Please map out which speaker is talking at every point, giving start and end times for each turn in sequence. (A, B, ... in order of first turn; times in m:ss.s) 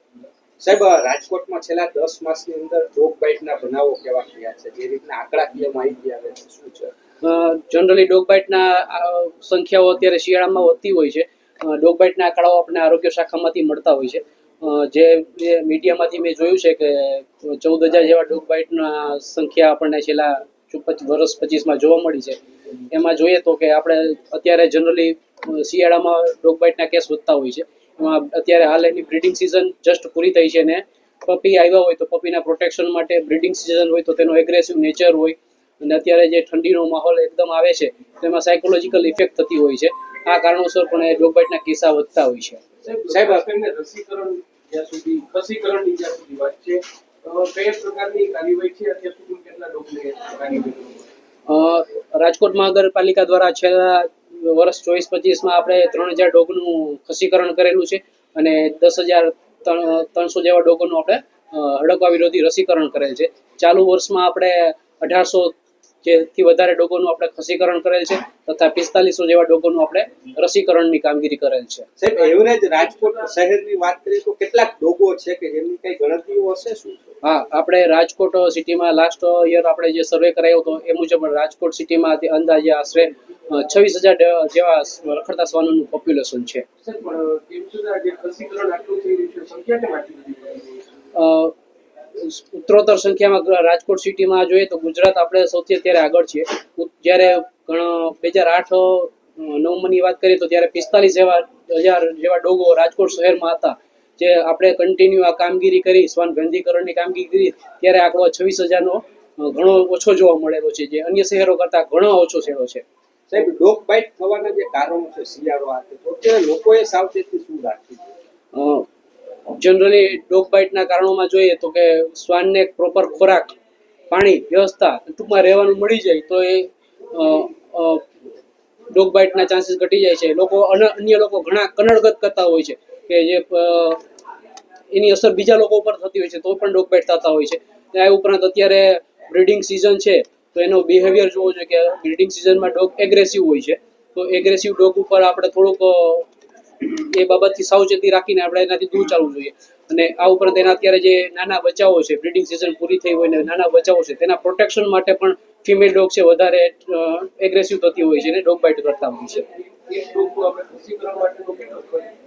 0:00.6-0:06.9 A
0:07.2-0:42.6 B
0:42.8-0:51.0 C
0:43.1-0:43.4 A
0:51.5-1:11.9 B
1:12.0-1:17.2 A
1:17.2-1:26.7 B
1:26.8-1:30.8 C
1:31.1-1:31.6 B
1:32.2-1:52.8 B
1:53.3-1:58.1 A
1:58.5-1:58.9 B
1:59.5-2:03.6 B
2:04.1-2:08.1 B
2:08.9-2:14.1 B
2:14.9-2:26.3 B
2:26.8-2:39.5 B
2:39.8-2:42.2 C